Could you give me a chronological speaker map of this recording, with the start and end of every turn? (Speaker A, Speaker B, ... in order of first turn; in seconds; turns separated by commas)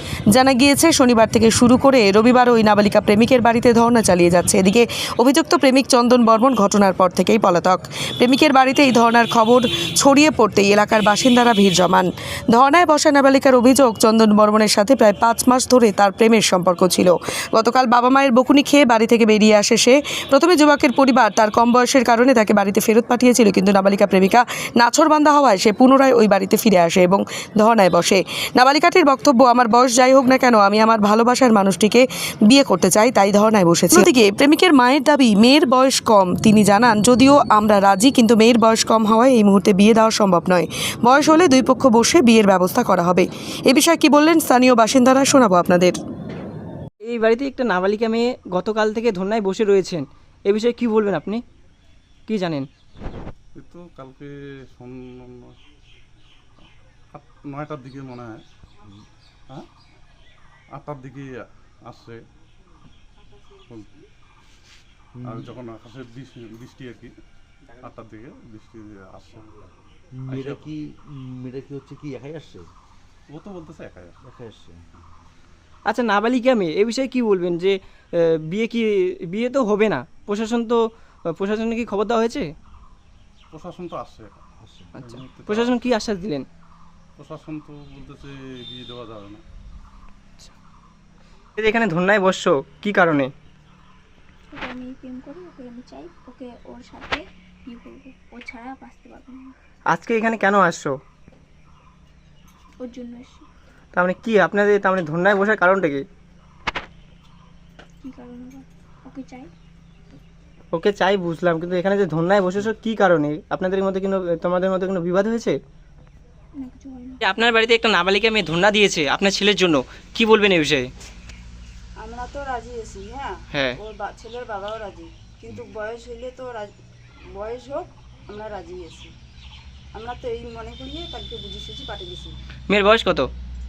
Speaker A: 0.3-46.0, Speaker B: 47.0-51.4, Speaker B: 52.3-52.7, Speaker C: 53.6-55.5, Speaker C: 57.1-58.4, Speaker C: 60.7-62.2, Speaker D: 65.2-65.5, Speaker C: 65.2-67.1, Speaker C: 67.8-69.5, Speaker D: 70.2-72.7, Speaker C: 70.3-70.7, Speaker C: 73.3-74.2, Speaker D: 74.2-74.7, Speaker B: 75.8-82.5, Speaker C: 83.5-84.4, Speaker C: 85.0-85.9, Speaker B: 85.0-86.5, Speaker C: 87.2-89.4, Speaker B: 91.6-93.3, Speaker E: 94.5-99.5, Speaker B: 99.9-101.0, Speaker E: 102.8-103.5, Speaker B: 103.9-106.0, Speaker E: 108.0-109.5, Speaker B: 110.7-115.6, Speaker E: 116.6-117.2, Speaker B: 117.2-120.9, Speaker F: 122.0-126.7, Speaker B: 123.5-123.8, Speaker F: 127.4-129.1, Speaker F: 129.9-132.4, Speaker B: 132.7-133.3